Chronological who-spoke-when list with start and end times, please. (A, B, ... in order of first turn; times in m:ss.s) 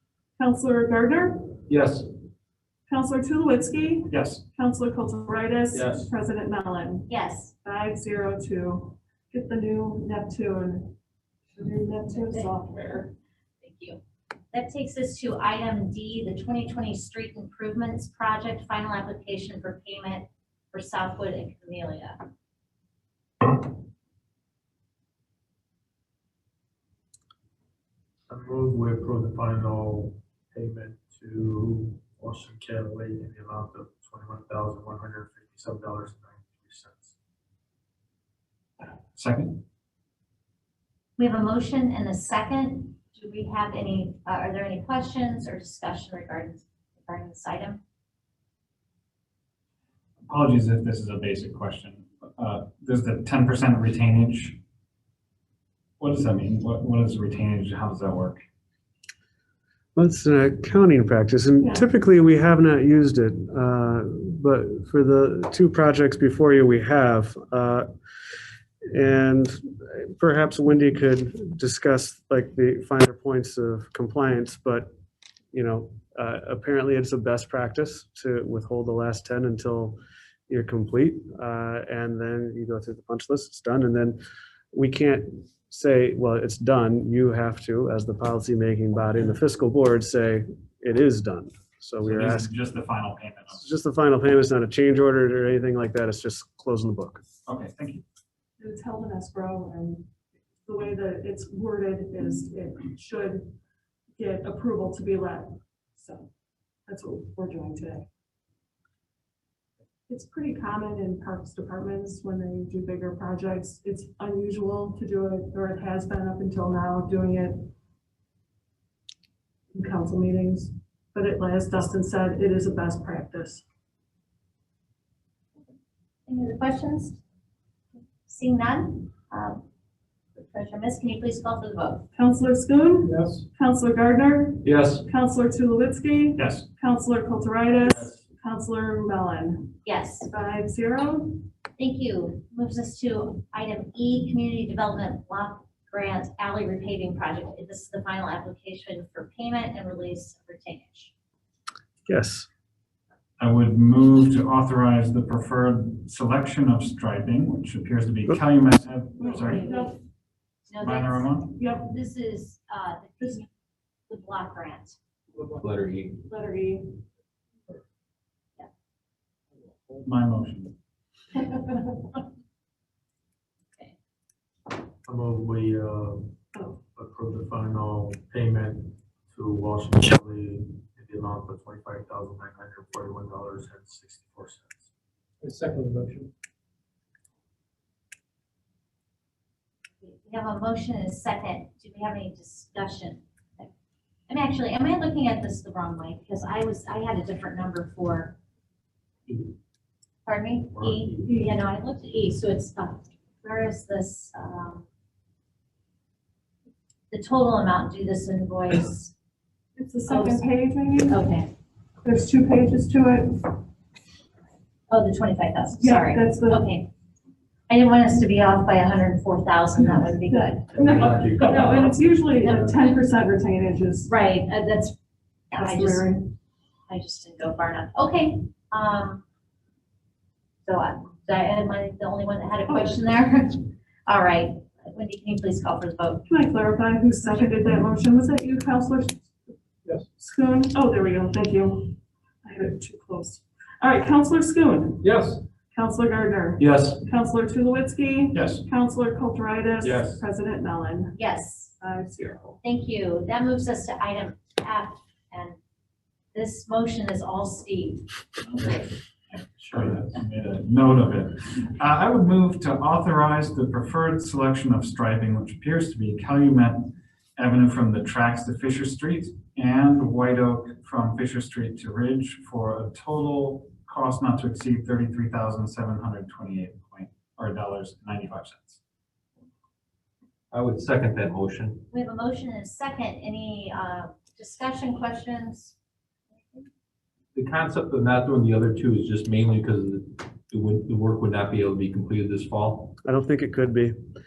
0:00.4-0:01.5 A
0:01.7-0:02.1 B
0:02.9-0:07.1 A
0:04.1-0:04.4 C
0:05.7-0:06.1 B
0:07.1-0:07.5 D
0:07.6-0:11.0 A
0:11.5-0:13.1 A
0:12.2-0:12.5 D
0:13.6-0:14.0 D
0:14.5-0:22.2 D
0:28.3-0:37.2 E
0:39.1-0:39.6 C
0:41.2-0:47.8 D
0:50.3-0:54.6 C
0:56.0-0:58.4 C
1:00.0-1:07.9 F
1:01.6-1:01.9 A
1:08.9-1:14.9 F
1:15.5-1:20.0 F
1:20.5-1:24.2 F
1:24.7-1:32.5 F
1:32.0-1:33.6 C
1:33.6-1:37.2 F
1:37.5-1:38.0 C
1:38.6-1:40.1 A
1:40.6-1:43.6 A
1:44.2-1:46.3 A
1:46.9-1:48.1 A
1:50.1-1:57.7 A
1:59.7-2:03.6 A
2:06.3-2:07.2 D
2:08.3-2:09.6 D
2:10.4-2:12.1 D
2:12.2-2:21.4 A
2:13.0-2:13.4 B
2:14.6-2:15.0 B
2:16.4-2:16.7 C
2:19.8-2:20.3 D
2:21.8-2:31.1 D
2:32.1-2:32.5 F
2:33.4-2:39.7 C
2:39.2-2:40.0 A
2:39.3-2:39.9 D
2:40.7-2:43.5 D
2:40.8-2:41.5 C
2:41.6-2:41.9 A
2:44.1-2:45.0 D
2:45.4-2:46.2 B
2:46.3-2:47.0 A
2:50.0-2:50.8 C
2:55.0-2:56.4 E
2:56.5-2:56.8 A
2:57.0-3:04.9 E
3:05.4-3:06.3 B
3:10.0-3:13.7 D
3:14.3-3:18.4 D
3:20.3-3:24.8 D
3:20.7-3:21.3 E
3:27.1-3:29.1 D
3:29.8-3:31.2 A
3:30.1-3:30.5 D
3:31.0-3:31.5 D
3:32.0-3:33.6 A
3:34.9-3:36.9 D
3:35.8-3:36.7 A
3:37.7-3:41.1 D
3:40.3-3:44.1 A
3:40.7-3:41.9 E
3:42.4-3:43.0 D
3:44.1-3:45.0 D
3:45.5-3:46.2 D
3:45.5-3:46.2 A
3:46.9-3:49.2 D
3:50.6-3:56.2 D
3:52.7-3:53.0 A
3:56.3-3:59.3 A
4:00.2-4:05.1 A
4:05.0-4:05.4 B
4:05.7-4:11.2 A
4:06.6-4:07.0 B
4:08.3-4:08.6 C
4:09.8-4:10.2 B
4:11.2-4:11.7 D
4:11.8-4:12.6 A
4:12.6-4:15.6 D
4:16.3-4:18.1 D
4:18.4-4:38.8 C
4:40.5-4:41.9 B
4:41.9-4:45.8 D
4:47.3-4:53.0 B
4:53.0-4:53.9 F